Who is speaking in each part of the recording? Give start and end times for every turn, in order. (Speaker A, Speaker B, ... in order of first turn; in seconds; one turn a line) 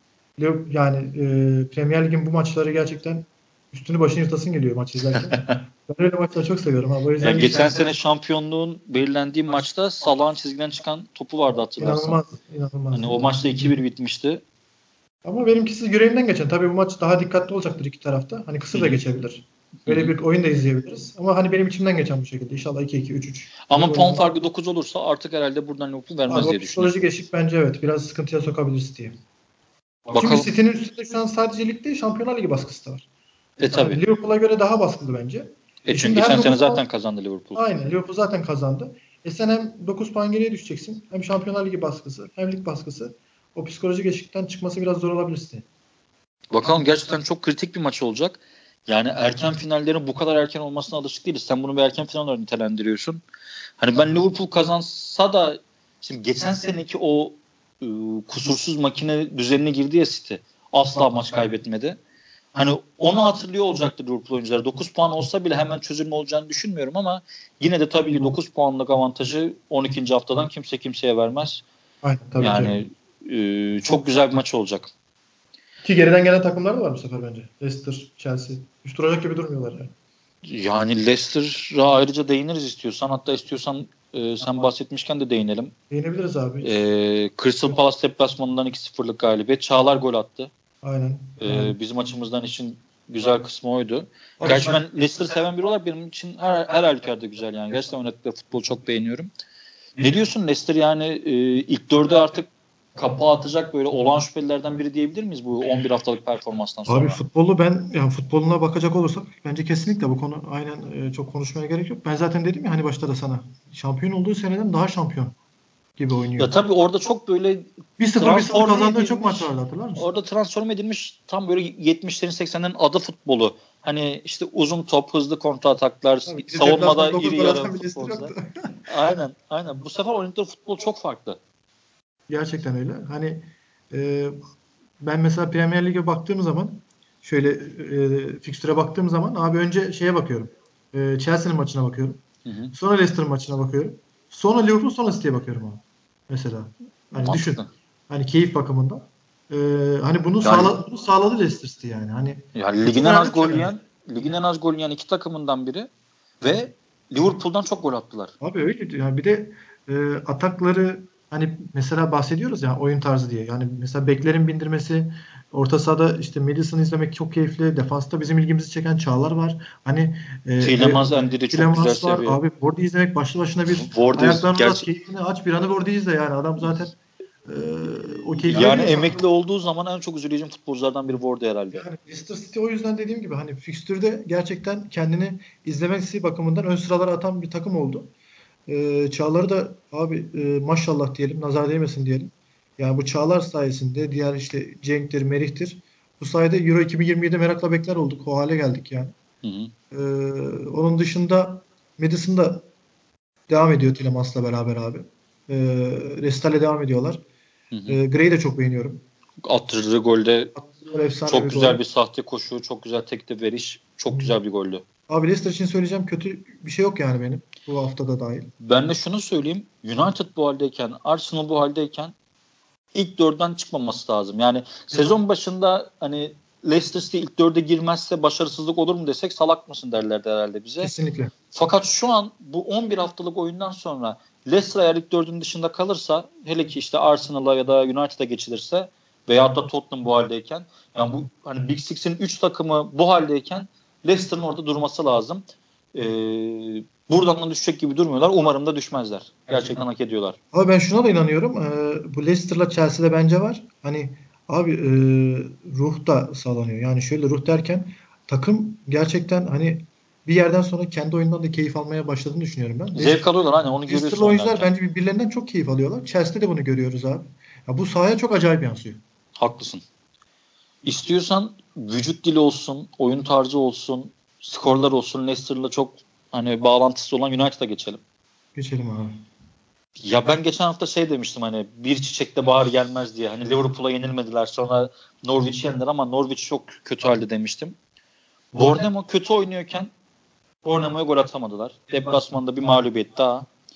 Speaker A: 0.4-7.8
Speaker B: 5.3-5.6
Speaker B: 7.2-12.2
Speaker A: 11.8-13.7
Speaker B: 12.9-14.4
Speaker A: 15.2-24.3
Speaker B: 19.9-20.1
Speaker B: 23.7-26.9
Speaker A: 26.3-29.2
Speaker B: 30.1-30.5
Speaker A: 30.1-33.0
Speaker B: 33.6-34.0
Speaker A: 33.6-36.8
Speaker B: 35.9-37.6
Speaker A: 37.5-45.6
Speaker B: 46.5-53.2
Speaker B: 53.8-62.0
Speaker B: 62.5-71.6
Speaker A: 72.0-72.8
Speaker B: 72.4-74.9
Speaker A: 75.8-79.9
Speaker B: 80.5-85.7
Speaker A: 85.9-86.8
Speaker B: 86.6-90.5
Speaker A: 90.8-91.8
Speaker B: 91.4-99.3
Speaker A: 94.4-94.8
Speaker B: 100.0-107.2
Speaker A: 106.9-115.3
Speaker A: 116.0-116.5
Speaker B: 116.4-128.3
Speaker A: 118.0-120.1
Speaker A: 126.3-128.8
Speaker B: 128.9-131.4
Speaker A: 132.3-134.4
Speaker A: 135.0-142.2
Speaker B: 142.5-142.7
Speaker A: 142.7-153.7
Speaker B: 147.2-147.7
Speaker B: 150.4-150.8
Speaker B: 152.6-155.9
Speaker B: 156.4-158.3
Speaker A: 158.4-179.2
Speaker B: 170.6-172.4
Speaker B: 173.7-174.9
Speaker B: 178.5-181.8
Speaker A: 181.7-188.1
Speaker A: 188.7-199.1
Speaker B: 199.4-199.7
Speaker A: 199.9-202.7
Speaker A: 203.5-207.2
Speaker B: 207.7-208.0
Speaker A: 207.9-209.0
Speaker B: 209.4-210.6
Speaker A: 210.6-211.8
Speaker B: 211.3-214.8
Speaker A: 215.1-218.5
Speaker B: 218.6-222.1
Speaker B: 222.9-230.9
Speaker A: 230.8-231.3
Speaker B: 231.5-245.4
Speaker B: 245.9-250.4
Speaker A: 250.5-263.3
Speaker B: 262.9-264.7
Speaker A: 263.9-269.0
Speaker B: 269.4-269.8
Speaker B: 270.9-278.0
Speaker A: 278.6-279.2
Speaker B: 280.0-287.8
Speaker B: 288.5-289.9
Speaker B: 290.6-293.5